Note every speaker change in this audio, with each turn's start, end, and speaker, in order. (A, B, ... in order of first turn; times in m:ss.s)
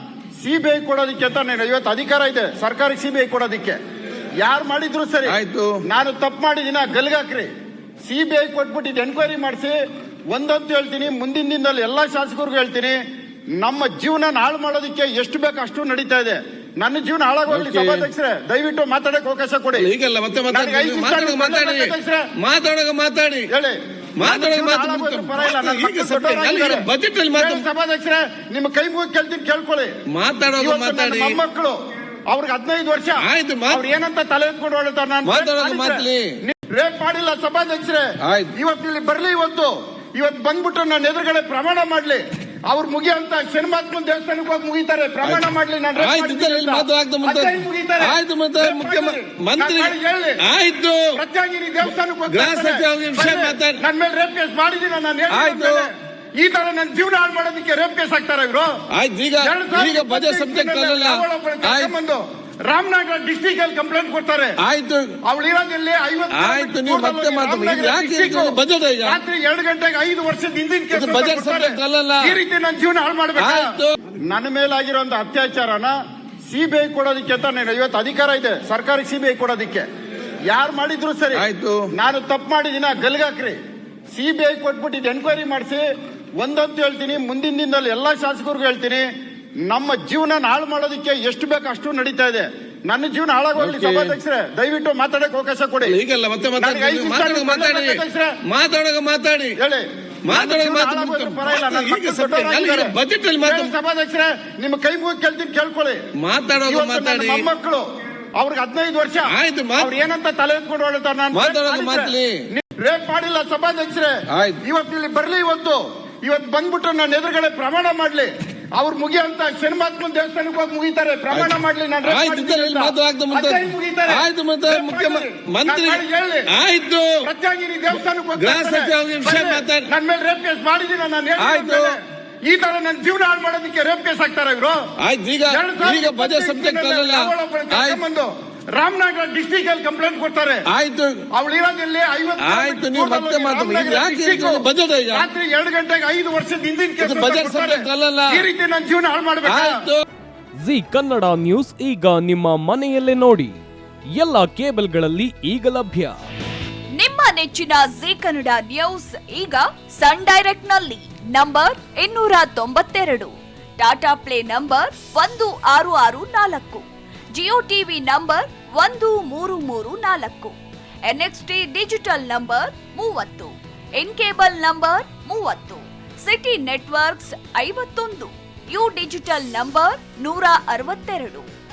0:00.4-0:03.8 A
0:04.4-0:05.4 A
0:05.2-0:05.7 B
0:05.9-0:07.5 A
0:08.0-0:09.8 A
0:10.3-0:13.0 A
0:13.6-0:19.9 A
0:17.5-0:18.1 B
0:19.8-0:23.5 B
0:20.5-0:22.3 A
0:23.5-0:29.9 A
0:24.2-0:27.6 B
0:30.1-0:31.4 B
0:30.6-0:31.8 A
0:32.3-0:50.4 A
0:33.2-0:33.8 B
0:35.2-0:36.2 B
0:38.2-0:38.5 B
0:46.0-0:51.2 B
0:51.1-0:58.8 A
0:52.3-0:53.8 B
0:55.3-0:55.9 B
0:58.9-1:01.9 B
0:59.4-1:04.6 A
1:04.6-1:05.2 B
1:05.2-1:13.7 A
1:06.3-1:09.2 B
1:10.9-1:12.4 B
1:13.4-1:13.9 B
1:14.3-1:15.9 A
1:16.5-1:19.8 A
1:20.5-1:23.6 A
1:21.3-1:21.8 B
1:24.1-1:25.8 A
1:26.4-1:29.0 A
1:29.7-1:35.9 A
1:33.6-1:34.2 B
1:35.8-1:39.6 B
1:36.6-1:38.3 A
1:39.6-1:46.0 A
1:40.2-1:43.7 B
1:46.2-1:47.5 B
1:46.6-1:47.8 A
1:48.4-2:06.5 A
1:49.3-1:49.9 B
1:51.3-1:52.4 B
1:54.3-1:54.6 B
2:02.1-2:07.2 B
2:07.2-2:14.8 A
2:08.4-2:09.9 B
2:11.4-2:12.0 B
2:15.0-2:18.0 B
2:15.5-2:20.6 A
2:20.7-2:21.2 B
2:21.3-2:29.8 A
2:22.4-2:25.2 B
2:27.0-2:28.5 B
2:29.4-2:30.0 B
2:30.6-2:33.6 C
2:34.1-2:36.2 C
2:37.0-2:46.8 D
2:47.4-3:01.5 D